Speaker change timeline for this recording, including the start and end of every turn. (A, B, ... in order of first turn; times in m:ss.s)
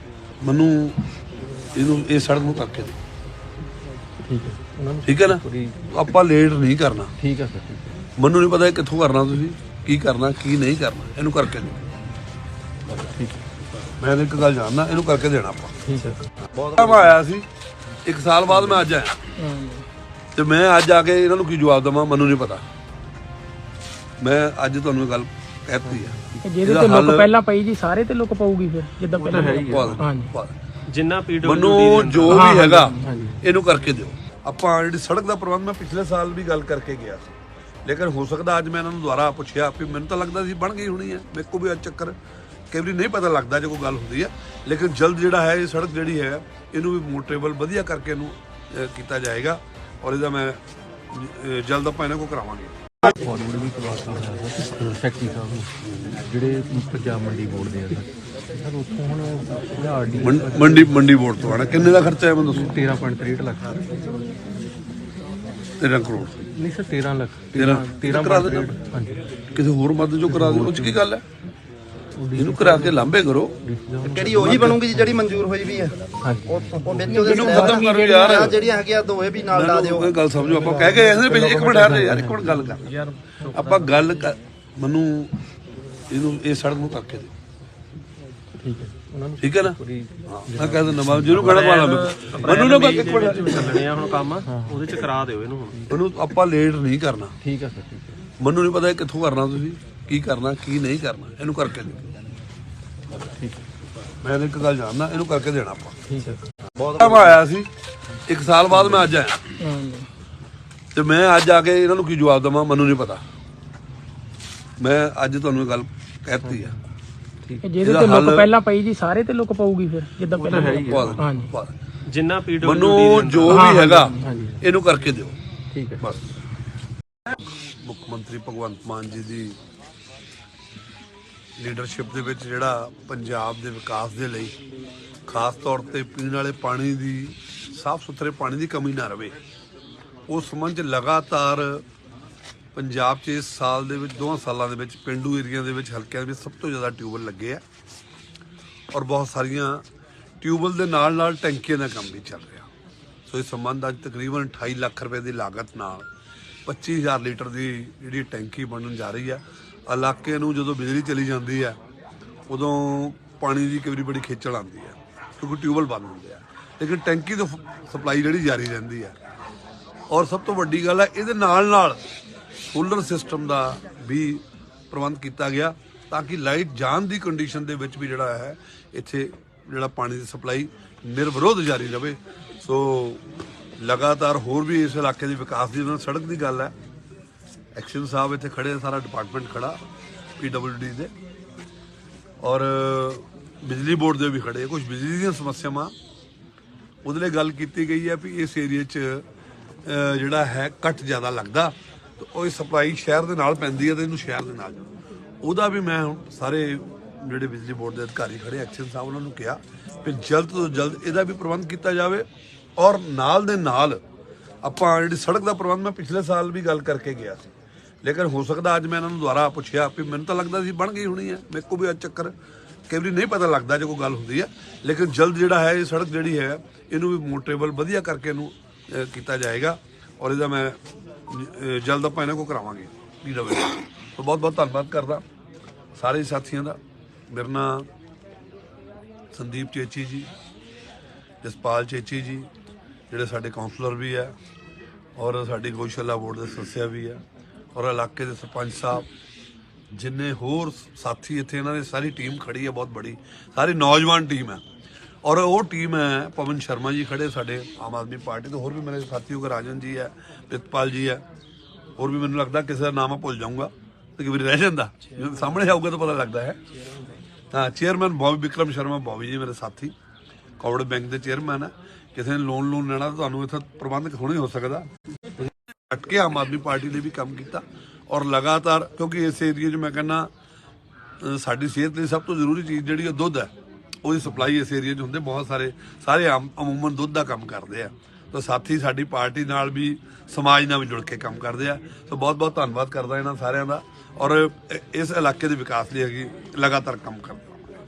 0:00.4-0:01.0 A
0:01.8-0:03.0 A
0:04.2-0:05.8 B
0:05.0-0:07.1 A
0:07.2-0:08.0 B
0:08.2-0:11.9 A
0:12.9-0:13.4 B
0:14.0-0:15.8 A
0:15.8-0:16.2 B
0:16.5-0:17.1 C
0:16.7-0:17.4 A
0:18.0-0:19.2 A
0:19.4-0:19.8 D
0:20.4-0:22.6 A
0:24.2-0:27.3 A
0:26.4-0:30.3 D
0:29.2-0:30.0 B
0:29.6-0:30.5 A
0:30.9-0:32.6 E
0:31.4-0:42.1 A
0:32.2-0:33.0 D
0:33.0-0:33.4 B
0:42.7-0:52.9 A
0:53.0-0:55.7 B
0:55.8-0:56.2 A
0:56.2-1:03.8 B
1:00.2-1:02.7 A
1:05.8-1:06.4 A
1:06.5-1:09.3 B
1:07.6-1:08.7 A
1:09.5-1:11.2 A
1:10.2-1:11.0 B
1:12.2-1:15.2 B
1:12.4-1:13.5 A
1:14.0-1:22.0 C
1:16.2-1:17.8 B
1:17.1-1:18.6 A
1:19.5-1:22.9 A
1:21.8-1:22.7 B
1:22.8-1:24.2 E
1:23.5-1:25.3 A
1:26.1-1:27.3 A
1:28.6-1:31.6 B
1:29.4-1:29.8 A
1:30.3-1:33.9 A
1:31.3-1:35.8 E
1:34.4-1:35.0 B
1:35.9-1:37.3 A
1:37.4-1:38.2 B
1:38.4-1:42.1 A
1:43.2-1:43.6 B
1:44.2-1:46.0 A
1:46.1-1:46.4 B
1:46.8-1:47.3 C
1:46.8-1:47.7 A
1:48.2-1:49.4 A
1:49.6-1:50.1 D
1:50.9-1:53.2 A
1:54.8-1:56.8 A
1:56.4-1:56.7 B
1:57.4-1:57.7 B
1:57.6-2:01.5 D
1:57.8-1:58.5 A
2:00.4-2:01.2 B
2:00.6-2:01.7 A
2:02.1-2:03.7 E
2:02.6-2:05.4 A
2:03.4-2:04.2 D
2:04.2-2:04.6 B
2:05.7-2:06.0 B
2:07.6-2:09.6 A
2:11.6-2:14.5 A
2:15.3-2:19.4 A
2:20.3-2:21.8 A
2:22.7-2:27.6 A
2:28.9-2:29.8 A
2:30.4-2:32.7 A
2:33.3-2:36.1 A
2:36.6-2:41.8 A
2:42.5-2:49.1 A
2:50.1-2:52.0 A
2:52.7-3:03.2 A
3:03.8-3:06.7 A
3:07.8-3:09.8 A
3:10.4-3:11.1 A
3:12.4-3:15.9 A
3:17.0-3:19.2 A
3:19.8-3:24.8 A
3:25.4-3:32.2 A
3:32.8-3:34.0 A
3:34.6-3:37.5 A
3:38.0-3:42.3 A
3:42.9-3:55.2 A
3:56.0-3:56.8 A
3:57.3-3:57.9 A
3:59.3-4:00.3 A
4:01.4-4:02.5 A
4:03.1-4:04.3 A
4:05.2-4:07.2 A
4:07.7-4:09.1 A
4:09.9-4:14.6 A
4:15.2-4:21.2 A
4:22.0-4:26.6 A
4:27.5-4:29.9 A
4:30.6-4:34.9 A
4:35.9-4:40.3 A
4:41.2-4:43.5 A
4:44.0-4:57.6 A